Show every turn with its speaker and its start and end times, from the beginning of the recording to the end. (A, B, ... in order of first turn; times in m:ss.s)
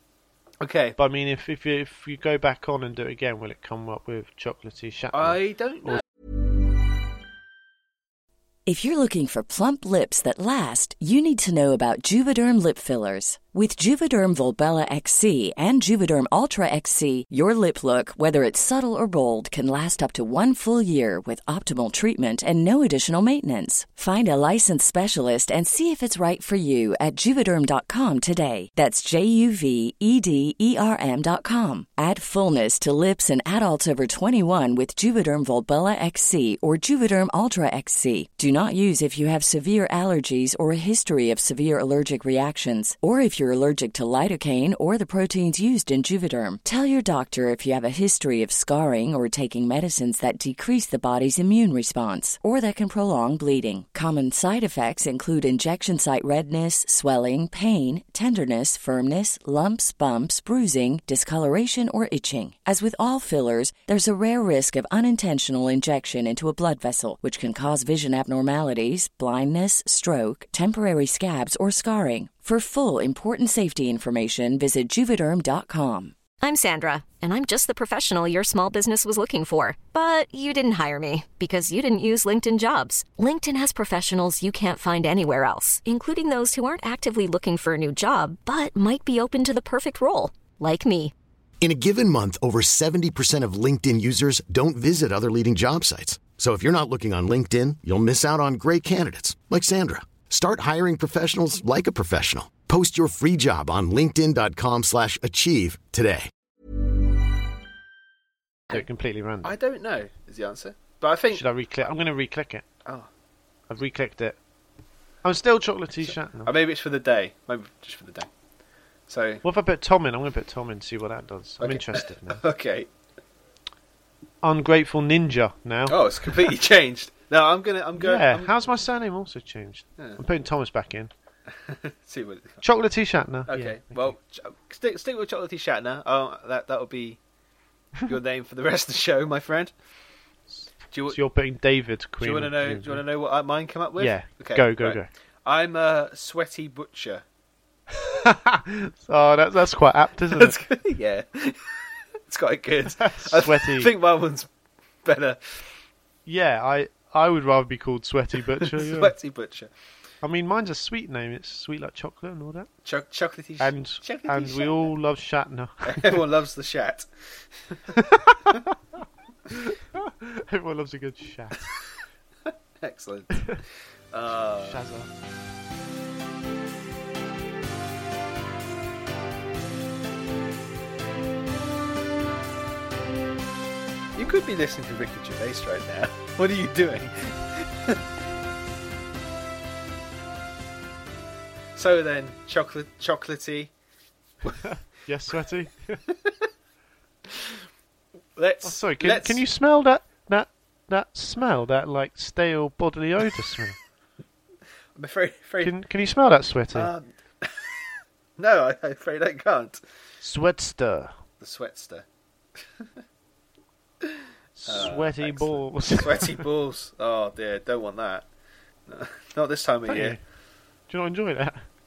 0:00.6-0:01.0 A
0:01.0-0:06.0 B
0:05.1-0:06.0 A
0:08.6-1:16.2 C
1:16.4-1:31.1 D
1:31.6-1:46.3 E
1:48.7-1:49.6 B
1:49.4-1:51.4 A
1:51.3-1:52.6 B
1:53.7-1:54.4 B
1:55.2-1:56.5 B
1:56.0-1:58.3 A
1:59.1-1:59.4 A
1:59.4-2:02.4 B
2:01.6-2:02.9 A
2:04.4-2:06.5 B
2:05.9-2:08.5 A
2:08.0-2:11.1 B
2:11.6-2:12.6 A
2:12.6-2:14.2 B
2:13.5-2:17.2 A
2:18.0-2:19.7 A
2:20.5-2:23.0 B
2:20.9-2:21.2 A
2:22.2-2:27.2 A
2:24.0-2:25.1 B
2:28.0-2:30.6 B
2:30.3-2:34.5 A
2:33.0-2:33.9 B
2:35.0-2:35.6 A
2:36.2-2:39.1 B
2:38.6-2:39.7 A
2:40.2-2:42.7 B
2:42.8-2:44.9 A
2:43.6-2:46.2 B
2:45.8-2:47.1 A
2:47.9-2:48.7 B
2:49.5-2:51.7 B
2:52.8-2:54.8 A
2:54.6-2:55.1 B
3:04.2-3:08.0 A
3:11.8-3:13.7 A
3:14.5-3:16.0 B
3:18.4-3:19.4 A
3:18.6-3:23.8 B
3:25.0-3:25.7 A
3:25.6-3:26.9 B
3:26.7-3:27.9 A
3:28.4-3:29.8 A
3:30.2-3:31.1 B
3:31.4-3:32.0 A
3:34.6-3:36.4 B
3:34.7-3:38.2 A
3:38.9-3:40.2 A
3:39.9-3:40.2 B
3:40.9-3:41.7 B